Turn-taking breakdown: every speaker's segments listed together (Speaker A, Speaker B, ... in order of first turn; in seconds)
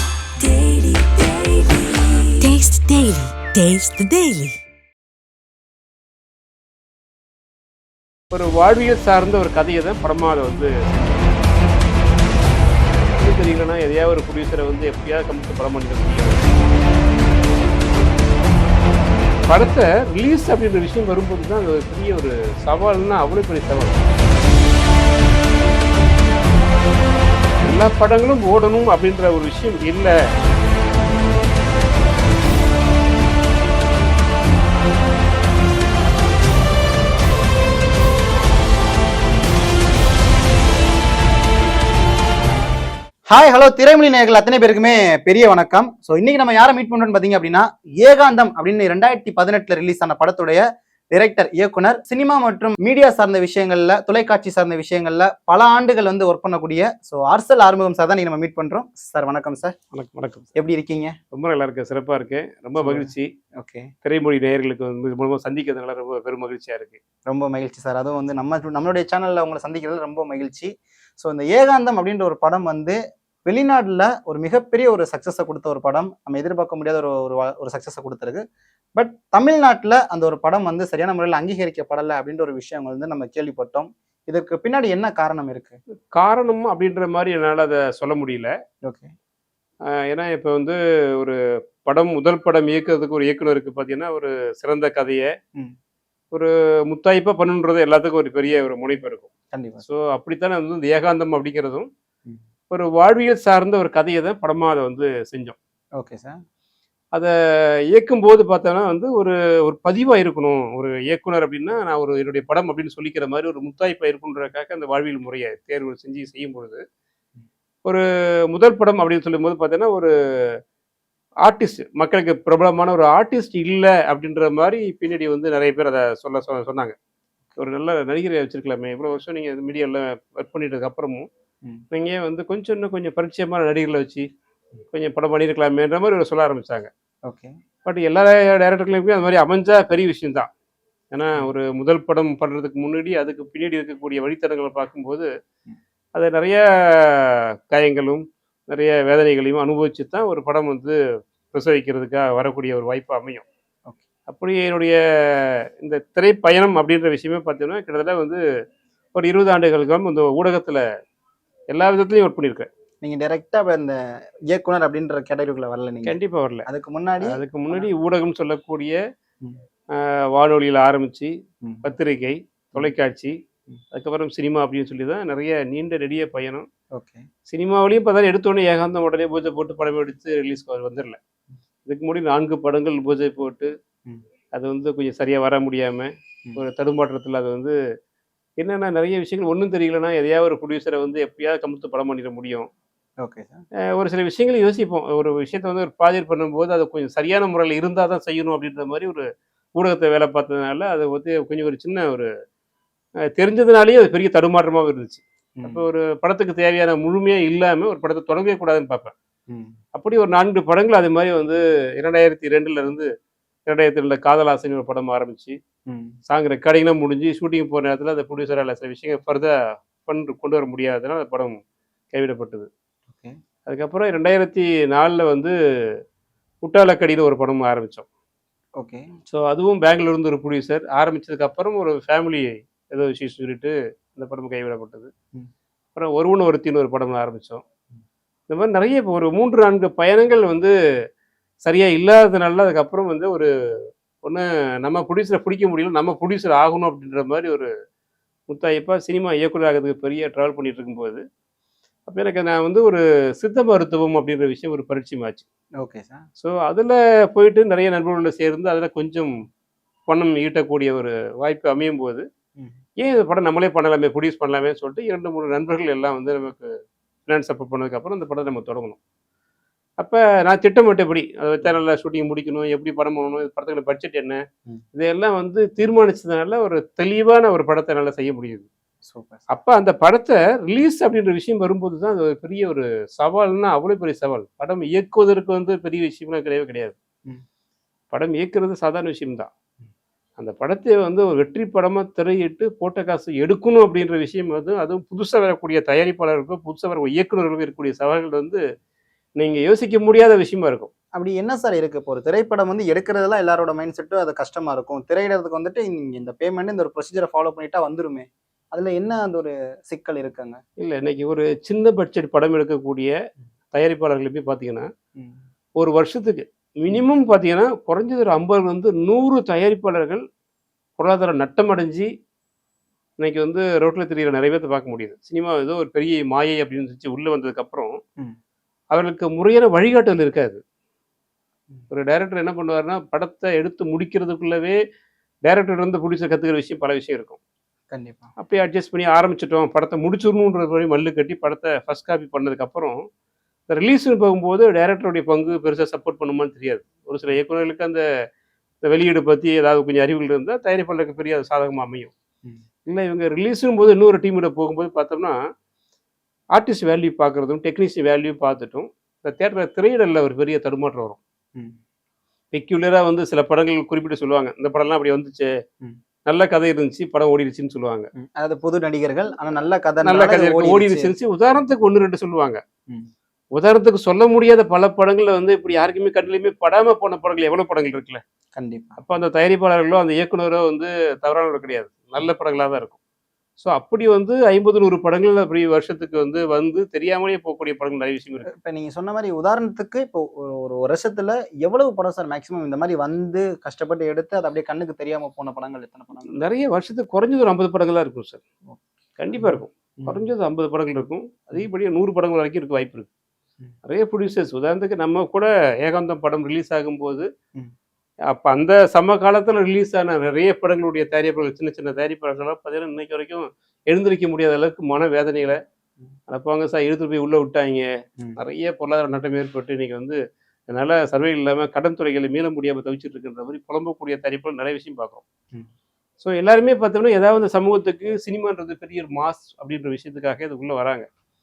Speaker A: 0.3-4.6
Speaker B: 8.3-11.2, 13.1-16.5, 19.5-24.1, 27.6-30.1, 59.9-60.5, 61.3-63.3, 64.0-67.0, 86.1-88.5, 90.1-95.3, 96.3-99.3, 99.8-101.9, 102.7-105.6, 107.9-116.8, 117.8-120.1, 121.4-127.0, 127.6-131.2, 131.9-134.3, 134.9-136.9, 137.8-140.5, 141.1-145.3, 146.1-151.0, 151.5-153.5, 154.3-158.4, 159.2-160.8, 161.7-162.7, 166.0-166.7, 167.2-169.0, 170.0-171.3, 171.8-173.3, 173.9-176.7, 177.5-181.2, 181.9-183.7, 184.6-187.8, 188.6-192.7, 193.9-199.2, 199.8-202.3, 203.4-209.1, 209.9-213.1, 213.7-215.6, 216.3-221.6, 222.1-222.7, 223.7-225.5, 226.6-228.1, 229.3-235.1, 235.9-237.6, 238.5-240.7, 241.6-243.5, 244.2-247.7, 248.5-251.2, 252.1-255.4, 256.4-259.3, 260.1-262.2, 263.0-266.7, 267.3-269.0, 270.0-274.4, 274.9-278.7, 279.5-286.9, 288.1-289.5, 290.4-298.6, 299.4-300.9, 310.8-313.1, 313.7-314.9, 315.8-320.2, 321.0-322.1, 323.2-328.0, 328.9-330.6, 331.9-334.8, 335.4-337.4, 338.4-343.0, 343.7-348.0, 348.8-352.1, 352.9-355.4, 356.5-361.2, 362.5-365.5, 366.2-368.1, 370.0-372.6, 373.6-378.2, 379.0-383.0, 383.6-388.5, 396.3-398.4, 399.2-403.1, 403.8-407.2, 408.3-415.6, 416.3-420.2, 420.7-425.2, 426.2-431.1
Speaker C: 43.3-59.8, 60.6-61.1, 62.8-63.9, 67.3-78.4, 79.0-85.8, 88.8-89.1, 99.5-99.8, 106.0-106.4, 137.3-137.5, 163.0-164.0, 164.5-167.9, 176.9-177.2, 193.2-193.6, 205.6-205.8, 209.5-209.8, 215.9-216.2, 228.8-229.1, 255.8-256.2, 279.0-279.4, 301.1-310.6, 337.9-338.3, 368.2-371.1, 378.5-379.0, 388.5-396.4, 398.7-400.3